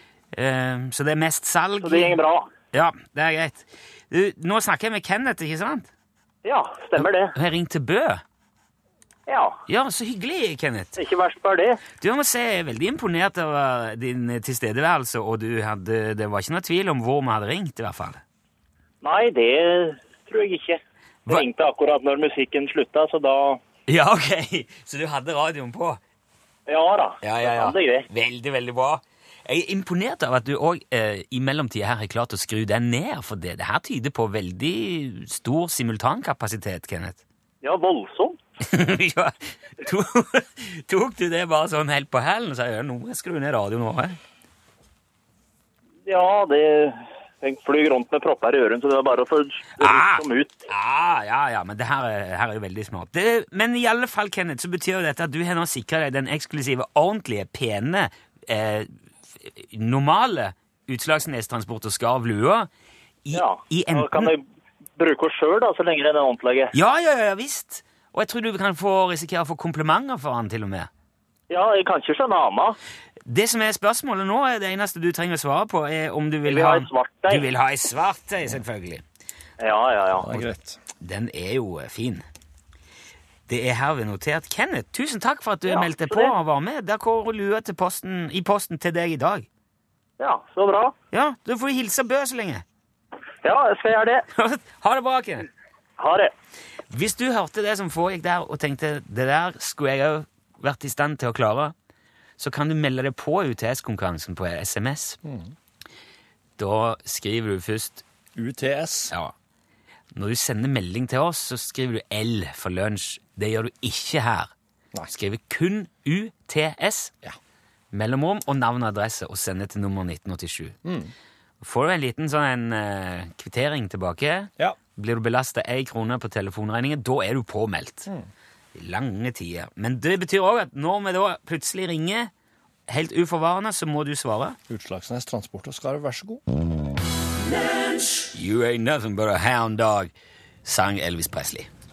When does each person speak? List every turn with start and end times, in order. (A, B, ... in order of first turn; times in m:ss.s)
0:00.3-0:02.2 A
0:01.8-0:02.5 B
0:02.7-0:05.9 A
0:06.4-0:07.3 B
0:07.0-0:08.2 A
0:09.3-0:09.6 B
0:09.7-0:11.0 A
0:11.0-0:11.8 B
0:12.0-0:18.2 A
0:19.0-0:23.6 B
0:23.9-0:26.0 A
0:26.7-0:28.1 B
0:27.2-0:37.2 A
0:37.6-0:38.4 B
0:38.6-0:44.2 A
0:46.0-0:50.7 B
0:49.8-1:02.7 A
1:03.2-1:04.3 A
1:03.3-1:04.4 B
1:05.0-1:06.7 B
1:06.7-1:10.9 A
1:11.5-1:12.8 B
1:13.2-1:19.0 A
1:16.4-1:17.4 B
1:19.6-1:20.3 B
1:20.1-1:20.8 C
1:21.0-1:22.2 A
1:23.5-1:29.5 A
1:25.7-1:26.3 B
1:30.2-1:30.9 B
1:31.1-1:32.6 A
1:33.4-1:34.2 B
1:34.3-1:35.5 A
1:36.0-1:36.3 B
1:36.9-1:41.7 A
1:42.4-1:45.2 A
1:45.2-1:45.5 C
1:46.6-1:48.0 A
1:48.4-1:49.1 C
1:50.1-1:54.5 A
1:55.1-1:57.1 A
1:57.9-2:00.8 A
2:00.8-2:01.1 C
2:01.6-2:08.1 A
2:08.7-2:12.3 A
2:12.9-2:14.6 A
2:14.7-2:16.4 C
2:18.3-2:20.1 A
2:20.6-2:21.7 A